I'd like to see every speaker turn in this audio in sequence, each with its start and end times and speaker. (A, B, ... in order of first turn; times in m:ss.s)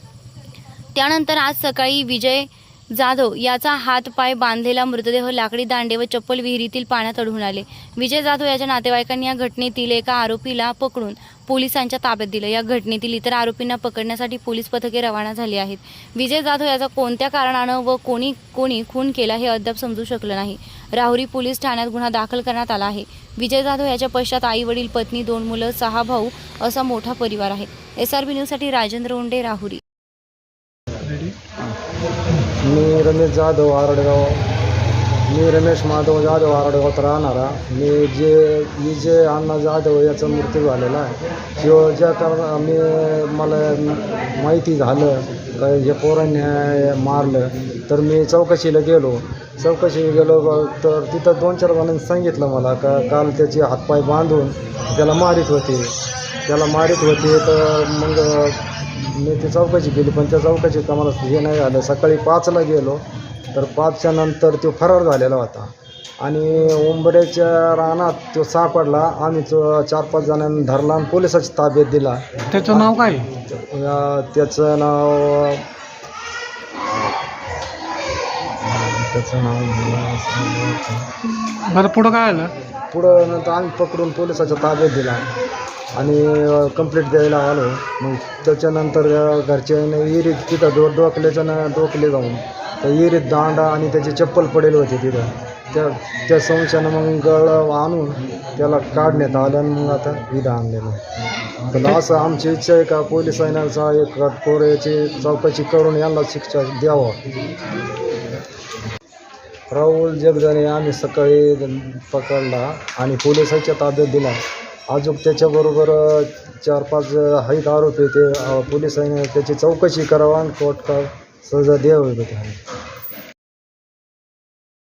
0:01.0-0:29.8 A
0:31.0-0:31.4 B
0:32.6-0:34.4 C
0:35.3-1:15.7 C
1:12.5-1:13.3 B
1:18.6-1:21.1 C
1:21.3-1:22.5 B
1:22.9-1:25.2 C
1:26.0-1:41.0 C
1:41.7-1:47.2 C
1:49.7-2:02.6 C